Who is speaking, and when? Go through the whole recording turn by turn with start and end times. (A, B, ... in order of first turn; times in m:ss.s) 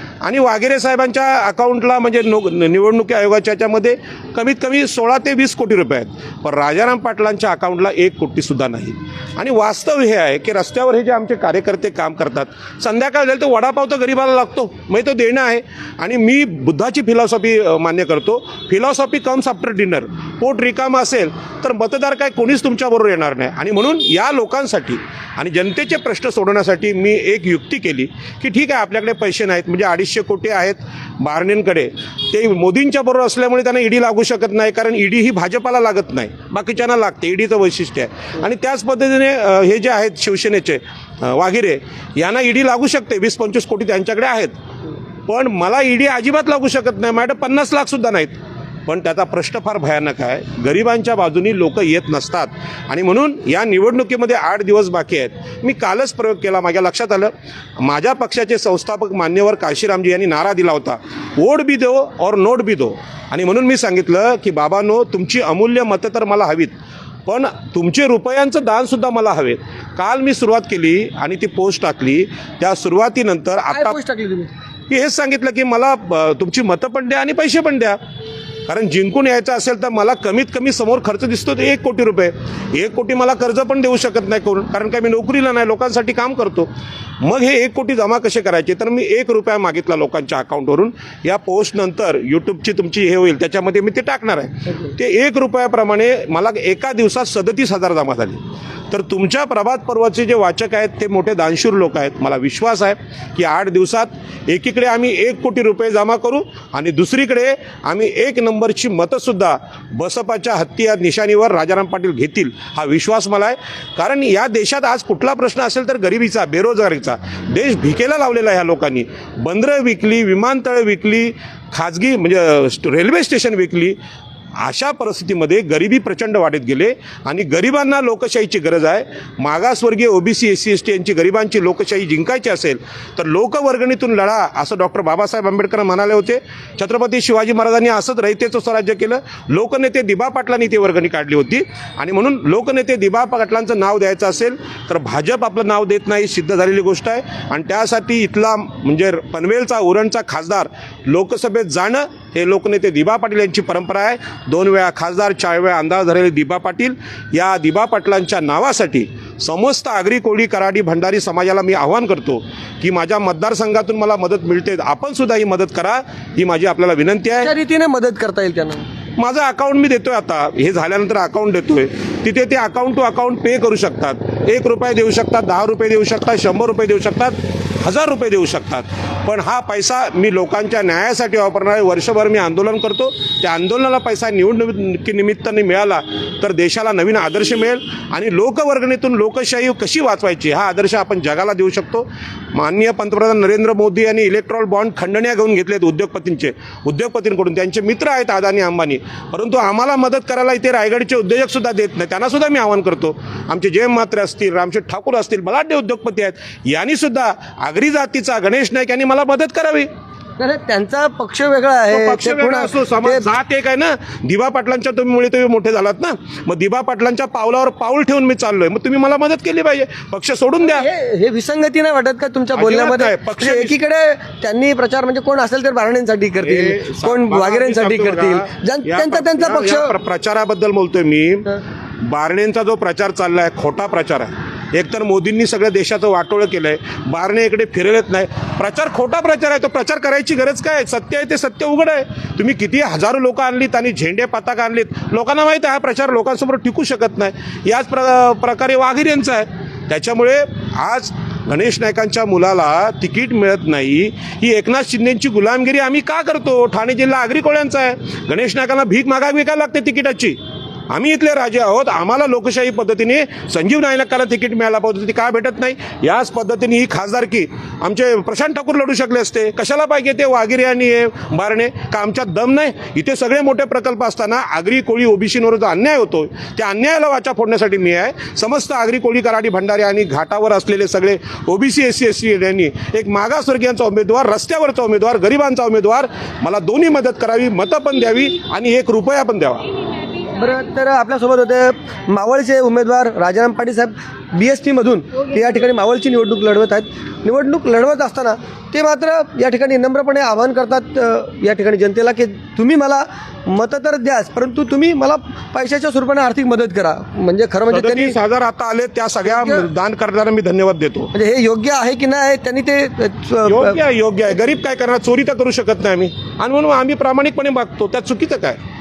0:00.2-0:44.5 A
0:45.3-1:06.7 A
1:07.2-1:14.0 A
1:13.7-1:14.5 B
1:14.9-1:18.0 A
1:18.7-1:26.7 A
1:27.2-2:04.0 A
2:04.6-2:47.5 A
2:47.4-2:48.8 B
2:49.2-3:29.9 A
3:30.4-3:33.3 B
3:31.9-3:40.8 A
3:40.6-3:49.9 B
3:42.6-3:43.7 A
3:46.4-4:20.4 A
4:20.9-4:49.7 A
4:50.3-5:08.1 B
5:07.7-5:11.1 A
5:09.2-5:09.7 B
5:11.1-5:13.8 B
5:13.4-5:18.6 A